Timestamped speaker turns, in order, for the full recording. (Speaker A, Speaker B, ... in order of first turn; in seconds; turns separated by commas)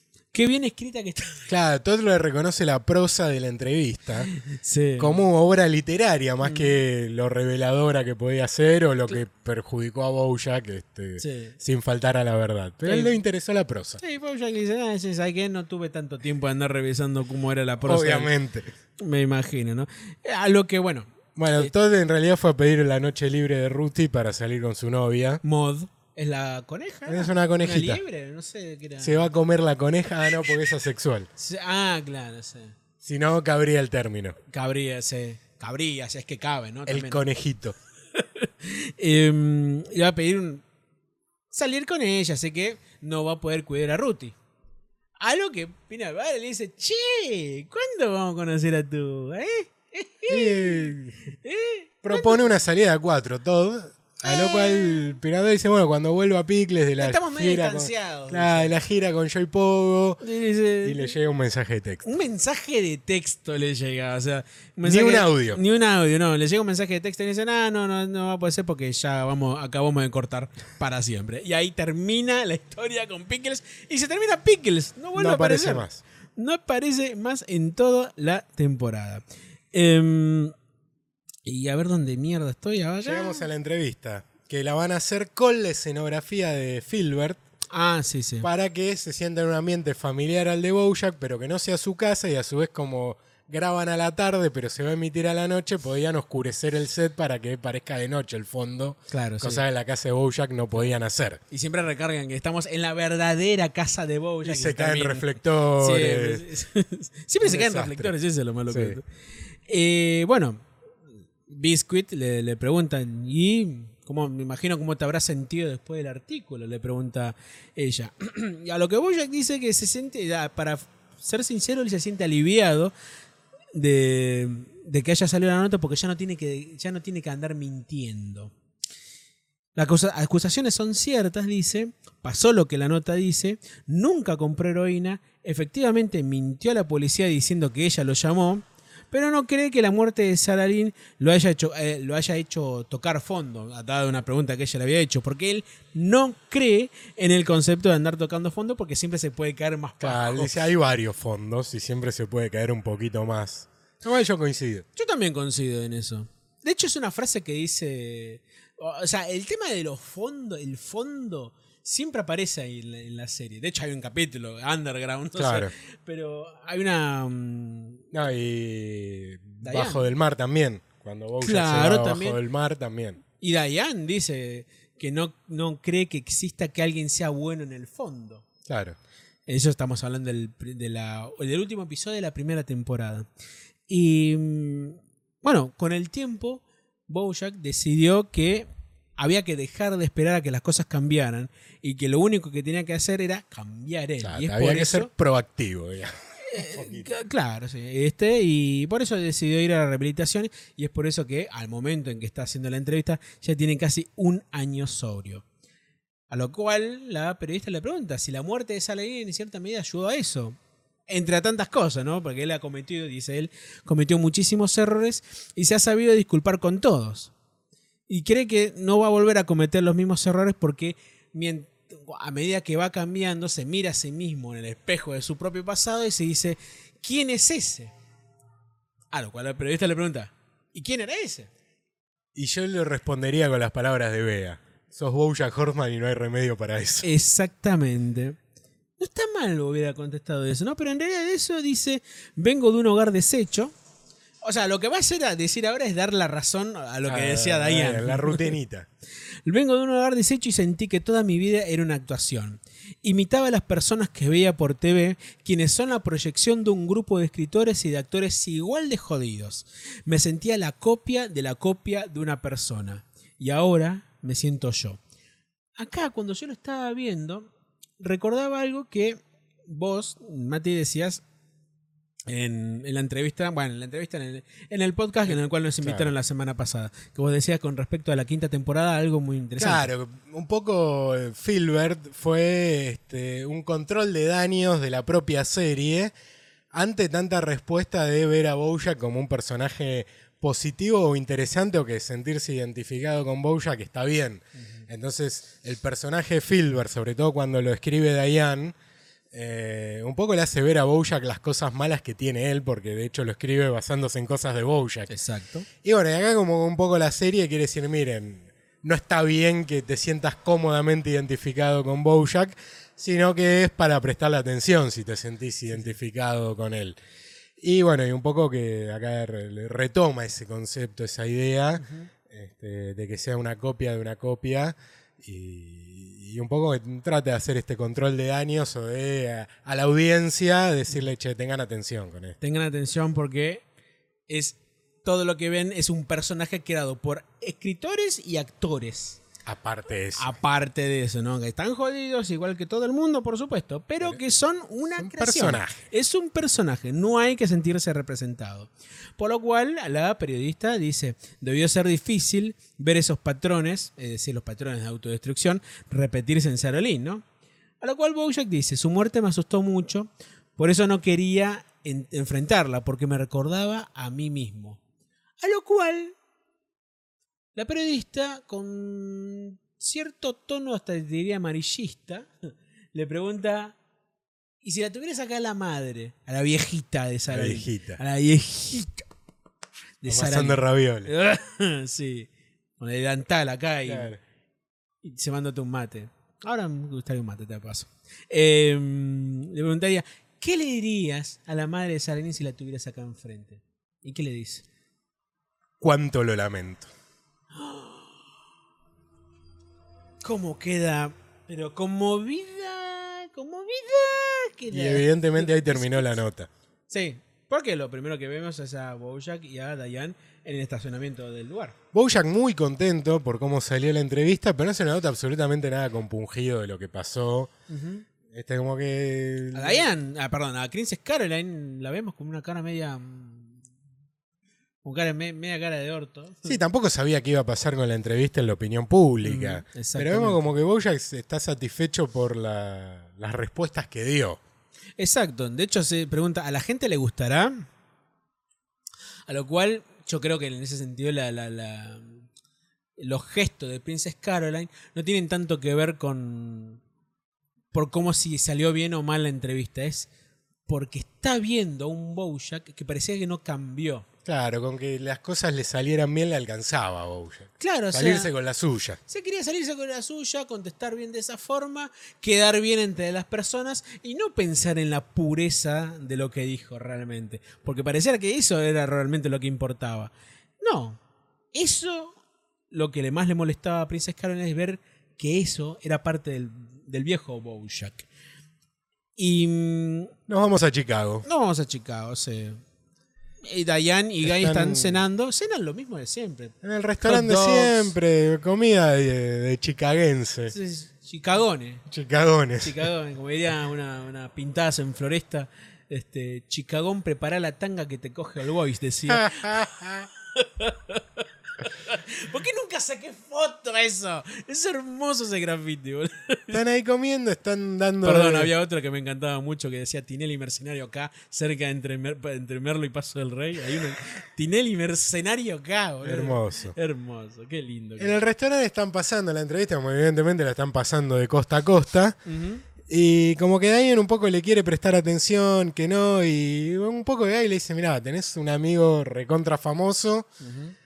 Speaker A: 0.3-1.5, Speaker B: 1.5-4.3, Speaker A: 4.3-5.2, Speaker B: 5.0-14.0, Speaker A: 6.4-6.7, Speaker A: 11.2-11.6, Speaker A: 12.8-13.2, Speaker A: 14.0-18.3, Speaker B: 17.8-18.7, Speaker A: 19.0-21.7, Speaker B: 21.4-25.4, Speaker A: 25.4-29.3, Speaker B: 27.1-28.0, Speaker B: 29.0-31.3, Speaker A: 31.4-32.8, Speaker B: 33.0-34.4, Speaker A: 34.5-37.2, Speaker B: 36.9-37.7, Speaker A: 38.1-40.6, Speaker A: 41.5-44.4, Speaker A: 45.2-52.4, Speaker B: 50.3-51.1, Speaker B: 52.0-60.2, Speaker A: 54.2-55.1, Speaker A: 57.0-58.7, Speaker A: 60.2-61.1, Speaker B: 60.8-62.0, Speaker A: 62.0-80.5, Speaker B: 64.8-65.6, Speaker B: 75.1-76.0, Speaker A: 81.4-83.5, Speaker B: 83.0-87.4, Speaker A: 87.7-88.5, Speaker B: 88.4-101.4, Speaker A: 99.1-99.6, Speaker A: 101.5-109.0, Speaker B: 104.4-106.5, Speaker B: 107.4-108.1, Speaker B: 108.7-109.0, Speaker A: 109.7-110.6, Speaker A: 111.5-122.9, Speaker A: 123.7-128.5, Speaker A: 129.7-150.6, Speaker B: 150.0-154.8, Speaker A: 154.9-168.0, Speaker B: 165.4-165.7, Speaker B: 168.1-173.2, Speaker A: 169.6-170.1, Speaker A: 171.4-172.4, Speaker A: 173.4-178.4, Speaker B: 178.7-179.0, Speaker A: 179.5-183.3, Speaker A: 183.9-195.1, Speaker B: 194.2-197.1, Speaker A: 196.4-205.4, Speaker A: 206.3-217.3, Speaker A: 218.1-227.9, Speaker A: 229.1-231.5, Speaker B: 232.3-237.1, Speaker A: 237.0-238.4, Speaker A: 239.0-243.7, Speaker A: 244.4-248.5, Speaker B: 247.1-248.9, Speaker A: 249.4-265.0, Speaker A: 265.8-267.5, Speaker A: 268.0-271.2, Speaker A: 272.3-279.9, Speaker B: 275.8-276.1, Speaker B: 279.6-286.1, Speaker B: 286.7-298.8, Speaker B: 299.3-305.1, Speaker A: 305.1-305.6, Speaker B: 305.8-317.0, Speaker B: 317.6-332.4, Speaker A: 321.8-322.1, Speaker A: 332.4-333.6, Speaker A: 334.3-339.2, Speaker B: 339.4-340.3, Speaker A: 340.1-357.2, Speaker B: 345.0-345.8, Speaker A: 357.8-364.8, Speaker A: 365.4-366.1, Speaker A: 367.5-373.8, Speaker A: 374.6-379.1, Speaker B: 377.3-378.0, Speaker A: 380.0-384.1, Speaker B: 380.1-381.1, Speaker B: 383.9-384.2, Speaker A: 385.0-394.6, Speaker B: 395.8-396.9, Speaker A: 397.5-398.3, Speaker A: 400.2-406.2, Speaker B: 404.7-406.5, Speaker A: 406.9-411.7, Speaker B: 411.9-417.5, Speaker A: 417.7-418.0, Speaker B: 418.3-419.8, Speaker A: 419.5-423.6, Speaker A: 424.8-426.6, Speaker B: 426.4-434.4, Speaker A: 429.2-430.5, Speaker A: 435.0-437.7, Speaker A: 439.3-442.2, Speaker A: 443.0-446.8, Speaker A: 447.7-450.1, Speaker A: 450.7-454.1, Speaker B: 454.2-459.0, Speaker A: 457.6-458.3, Speaker A: 459.1-471.0, Speaker A: 471.5-472.1, Speaker A: 472.7-478.1, Speaker A: 479.2-480.1, Speaker B: 480.3-481.2, Speaker A: 481.2-482.6, Speaker A: 483.4-487.9, Speaker B: 484.2-485.0, Speaker B: 486.6-490.5, Speaker A: 490.5-491.8, Speaker B: 491.9-492.8, Speaker A: 492.6-499.7, Speaker B: 499.1-500.1, Speaker A: 500.3-506.6, Speaker B: 506.5-508.5, Speaker A: 508.0-518.1, Speaker B: 516.0-516.8, Speaker B: 518.0-522.2, Speaker A: 522.2-522.6, Speaker B: 522.8-530.3, Speaker A: 530.4-530.7